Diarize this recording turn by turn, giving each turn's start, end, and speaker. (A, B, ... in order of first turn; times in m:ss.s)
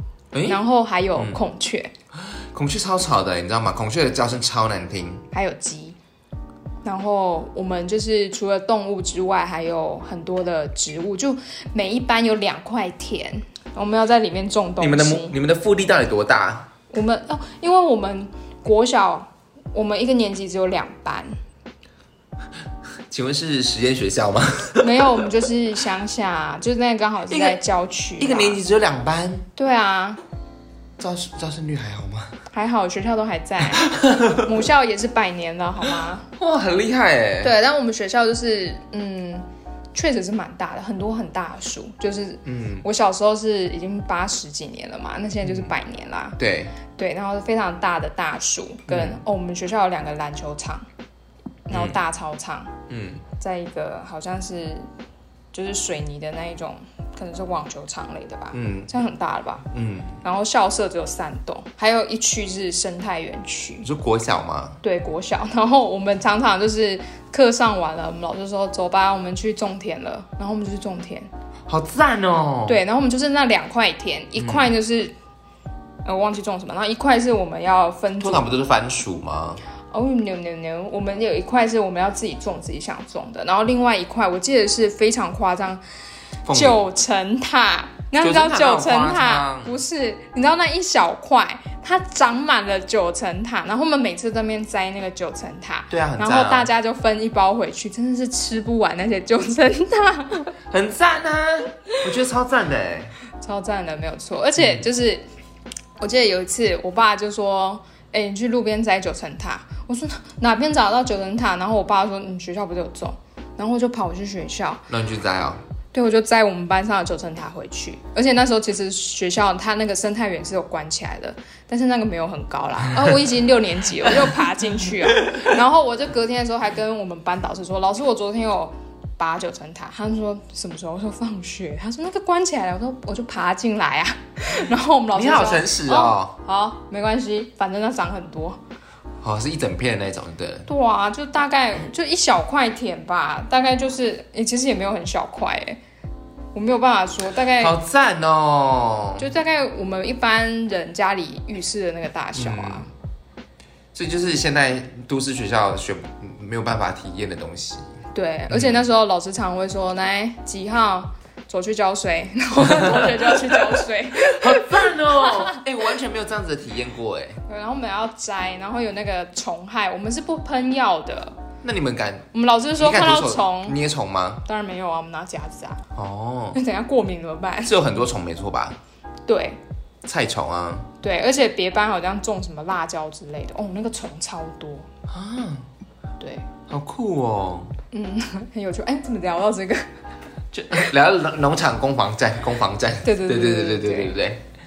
0:00.3-0:00.6 A
0:00.4-0:01.9 B
0:01.2-0:01.4 A
0:02.2-0:05.2 A
0:05.3-0:06.0 B
0:06.8-0:15.4 B
0:14.8-0:16.7 A
0:16.9-0:21.4 B
0:23.1-0:25.2 A
0:24.8-0:28.6 B
0:27.3-0:27.6 A
0:28.2-0:29.5 A
0:29.6-0:30.2 B
0:31.0-0:32.4 A
0:32.5-0:36.3 B
0:33.8-0:34.4 A
0:36.4-0:37.5 A
0:37.4-0:46.4 B
0:42.4-0:42.8 A
0:45.4-0:45.7 A
0:46.4-0:46.8 A
0:47.0-0:50.9 B
0:48.9-0:49.2 A
0:51.7-0:52.7 B
0:51.7-0:52.0 A
0:52.9-0:53.2 A
0:53.4-0:54.9 B
0:55.5-0:59.7 B
0:58.5-0:58.9 A
0:59.7-1:00.2 A
1:00.2-1:03.9 B
1:03.8-1:04.8 A
1:04.8-1:11.3 B
1:11.7-1:12.8 A
1:12.7-1:15.2 B
1:14.4-1:14.7 A
1:16.0-1:18.5 B
1:18.2-1:19.6 A
1:19.9-1:25.8 B
1:26.5-1:26.8 A
1:26.5-1:40.5 B
1:28.2-1:29.7 A
1:35.9-1:36.7 A
1:40.7-1:43.1 A
1:43.4-1:45.2 B
1:46.0-1:54.9 B
1:54.9-1:55.6 A
1:55.9-2:18.6 B
2:15.1-2:16.4 A
2:19.2-2:20.7 A
2:20.7-2:25.8 B
2:26.6-2:27.8 B
2:27.6-2:29.3 A
2:29.2-2:32.9 B
2:32.4-2:32.9 A
2:33.9-2:37.8 A
2:38.1-2:45.6 B
2:38.5-2:38.8 A
2:42.7-2:43.7 A
2:44.2-2:47.4 A
2:47.5-2:51.4 B
2:51.6-2:54.4 A
2:52.3-2:53.8 B
2:54.4-2:55.8 B
2:56.0-2:56.6 A
2:56.6-2:57.8 B
2:57.6-2:58.8 A
2:59.3-2:59.6 B
3:00.0-3:00.9 A
3:01.0-3:04.9 B
3:05.1-3:05.7 A
3:06.2-3:06.5 B
3:06.7-3:07.7 A
3:07.9-3:09.9 B
3:10.5-3:14.4 A
3:13.0-3:14.2 B